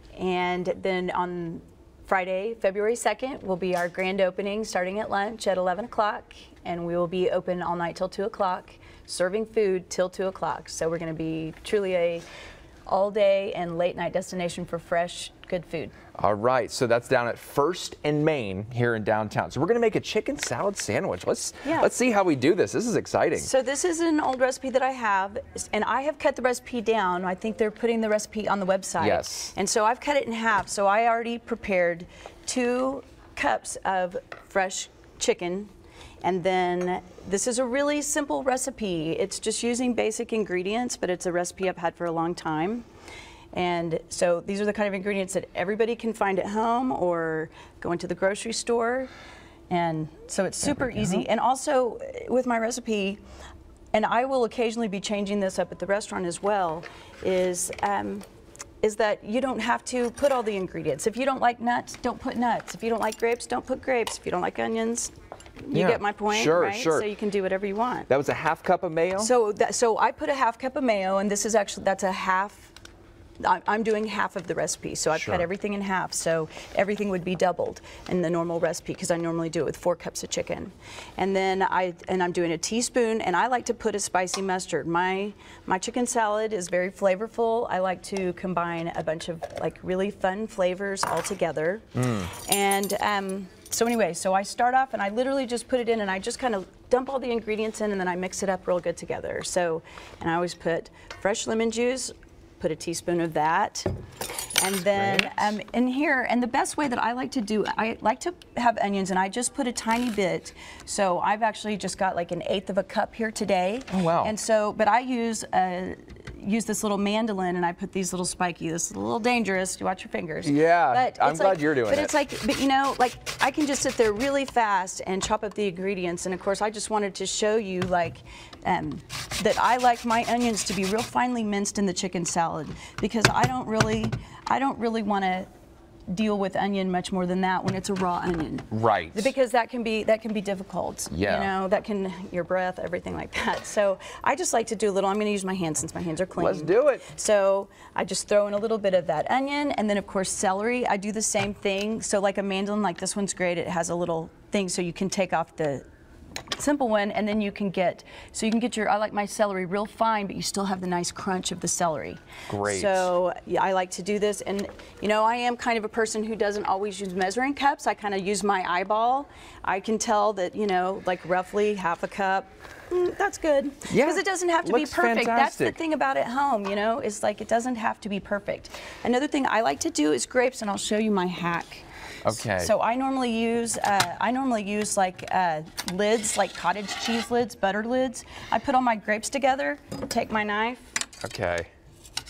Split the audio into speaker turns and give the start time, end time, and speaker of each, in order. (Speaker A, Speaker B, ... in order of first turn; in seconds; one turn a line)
Speaker A: 0.2-12.2
Speaker A: 12.9-15.9
Speaker B: 16.2-23.5
Speaker A: 21.6-21.9
Speaker A: 23.4-35.7
Speaker B: 29.0-29.5
Speaker A: 36.2-42.8
Speaker A: 43.5-49.1
Speaker A: 49.7-53.2
Speaker A: 53.9-58.2
Speaker A: 58.8-65.1
Speaker A: 65.6-68.1
Speaker B: 65.7-67.1
Speaker B: 68.1-69.3
Speaker A: 69.2-72.7
Speaker A: 73.4-103.9
Speaker B: 75.1-75.4
Speaker B: 92.0-92.3
Speaker A: 104.6-135.5
Speaker B: 104.9-105.3
Speaker B: 113.9-114.3
Speaker B: 120.4-122.1
Speaker A: 136.1-155.8
Speaker B: 138.7-139.3
Speaker B: 141.1-141.5
Speaker B: 146.4-147.1
Speaker A: 156.6-190.9
Speaker B: 162.5-163.1
Speaker B: 173.9-175.8
Speaker B: 182.2-182.7
Speaker B: 191.2-191.7